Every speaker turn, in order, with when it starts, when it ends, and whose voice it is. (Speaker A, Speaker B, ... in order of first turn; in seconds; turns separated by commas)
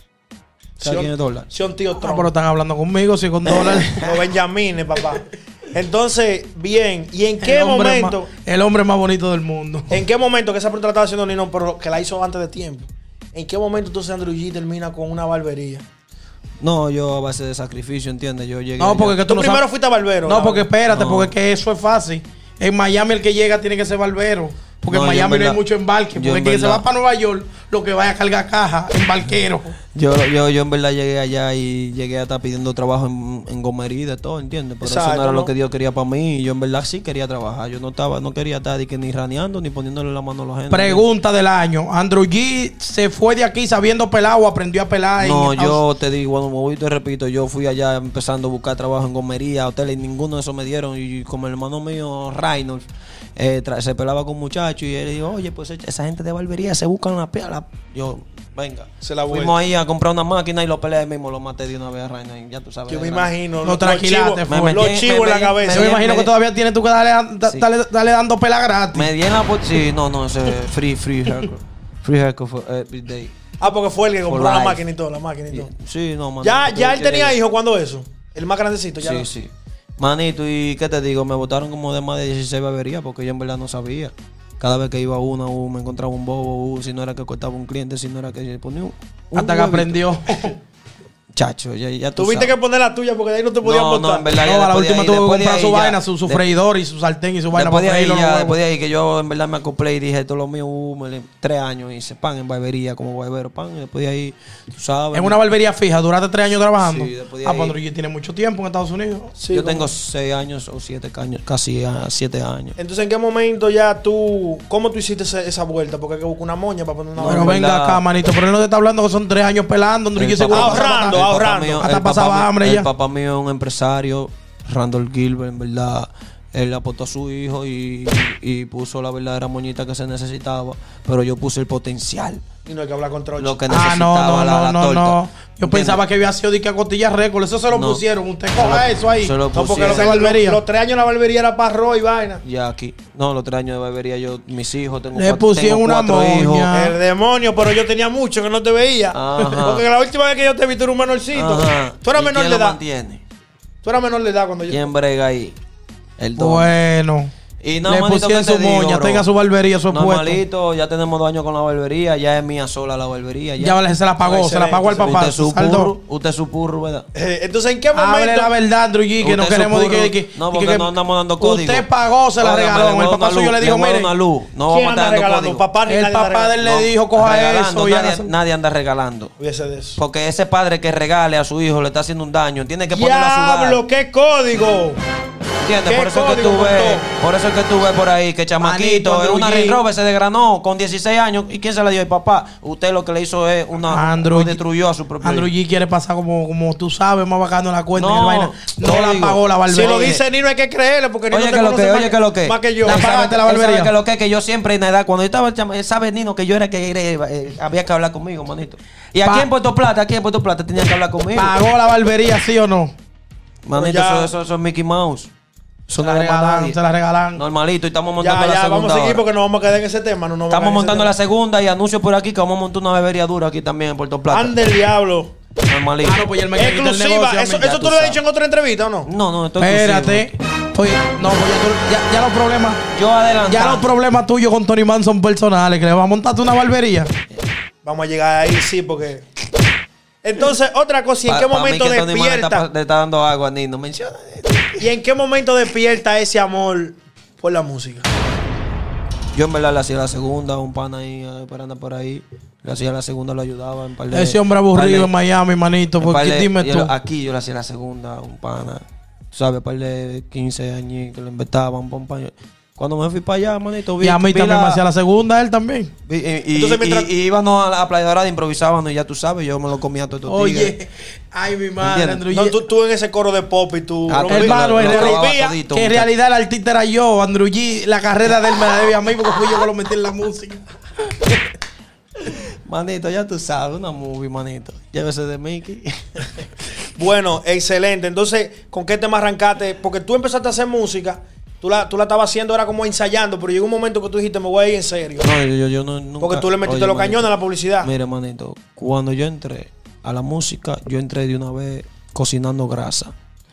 Speaker A: 0.8-2.3, Speaker B: 0.8-1.5, Speaker C: 2.0-4.0, Speaker B: 3.4-4.2, Speaker A: 4.0-8.3, Speaker C: 7.4-10.0, Speaker A: 9.9-15.8, Speaker B: 16.6-19.2, Speaker C: 18.8-19.6, Speaker A: 19.2-20.7, Speaker C: 20.2-29.8, Speaker B: 20.9-21.3, Speaker B: 24.9-25.6, Speaker B: 26.1-26.8, Speaker B: 29.9-41.0, Speaker A: 34.8-35.5, Speaker C: 40.7-45.8, Speaker B: 45.2-52.9, Speaker B: 53.4-63.3, Speaker A: 59.0-59.6, Speaker A: 62.9-66.0, Speaker C: 63.6-64.9, Speaker B: 64.5-66.3, Speaker C: 65.7-69.1, Speaker B: 68.9-73.3, Speaker A: 73.6-75.7, Speaker B: 74.2-74.9, Speaker B: 75.5-77.4, Speaker A: 76.4-79.3, Speaker B: 79.0-90.5, Speaker C: 89.3-90.5, Speaker B: 91.3-92.5, Speaker A: 92.2-94.3, Speaker B: 93.6-96.4, Speaker C: 94.4-98.6, Speaker B: 97.5-105.4, Speaker C: 105.1-109.3, Speaker B: 106.8-107.8, Speaker A: 109.3-109.9, Speaker B: 109.5-112.8, Speaker A: 112.8-117.6, Speaker B: 117.2-118.0, Speaker C: 117.2-121.2, Speaker B: 120.2-132.4, Speaker A: 120.5-121.8, Speaker C: 121.8-122.9, Speaker A: 132.6-133.6, Speaker B: 133.4-136.0, Speaker C: 133.7-140.6, Speaker B: 137.7-138.0, Speaker B: 138.5-140.3, Speaker A: 139.5-142.4, Speaker B: 142.4-146.7, Speaker C: 145.1-146.9, Speaker A: 146.7-152.8, Speaker B: 149.1-149.8, Speaker B: 151.3-153.2, Speaker A: 153.8-154.9, Speaker B: 154.7-155.6, Speaker B: 156.2-156.7, Speaker C: 156.4-157.3, Speaker B: 157.6-159.2, Speaker C: 157.8-160.4, Speaker B: 159.9-163.8, Speaker C: 163.6-165.9, Speaker A: 164.2-165.2, Speaker B: 165.0-167.1, Speaker A: 167.1-168.5, Speaker C: 167.9-174.1, Speaker B: 169.2-171.8, Speaker B: 172.4-175.6, Speaker A: 174.7-176.6, Speaker C: 175.9-178.3, Speaker B: 176.6-179.3, Speaker A: 179.4-180.0, Speaker B: 180.0-183.8, Speaker A: 182.9-185.0, Speaker B: 185.6-195.5, Speaker A: 185.8-187.0, Speaker C: 188.6-189.8, Speaker C: 193.9-194.6, Speaker C: 195.2-200.1, Speaker B: 197.9-200.2, Speaker A: 199.7-203.0, Speaker B: 201.3-211.5, Speaker C: 202.8-203.9, Speaker C: 211.3-212.9, Speaker B: 213.6-215.3, Speaker A: 213.7-214.3, Speaker B: 215.9-216.8, Speaker C: 216.0-217.4, Speaker B: 217.3-219.2, Speaker A: 218.2-221.1, Speaker B: 220.5-224.6, Speaker A: 224.3-225.3, Speaker B: 225.6-226.2, Speaker C: 226.0-227.8, Speaker A: 226.5-229.1, Speaker B: 227.6-228.2, Speaker B: 229.1-230.3, Speaker C: 229.6-232.8, Speaker B: 232.9-233.9, Speaker C: 233.5-237.1, Speaker A: 237.8-239.2, Speaker A: 240.2-242.6, Speaker B: 241.2-244.9, Speaker A: 244.8-248.1, Speaker B: 249.3-255.1, Speaker C: 254.1-256.9, Speaker B: 256.0-264.8, Speaker C: 264.0-265.9, Speaker B: 266.1-270.7, Speaker A: 266.5-267.1, Speaker C: 270.3-272.6, Speaker B: 271.8-272.2, Speaker A: 272.3-275.5, Speaker B: 274.1-276.1, Speaker C: 274.2-280.6, Speaker B: 282.2-286.4, Speaker A: 286.9-295.3, Speaker B: 295.2-297.3, Speaker A: 296.2-297.9, Speaker B: 297.8-303.1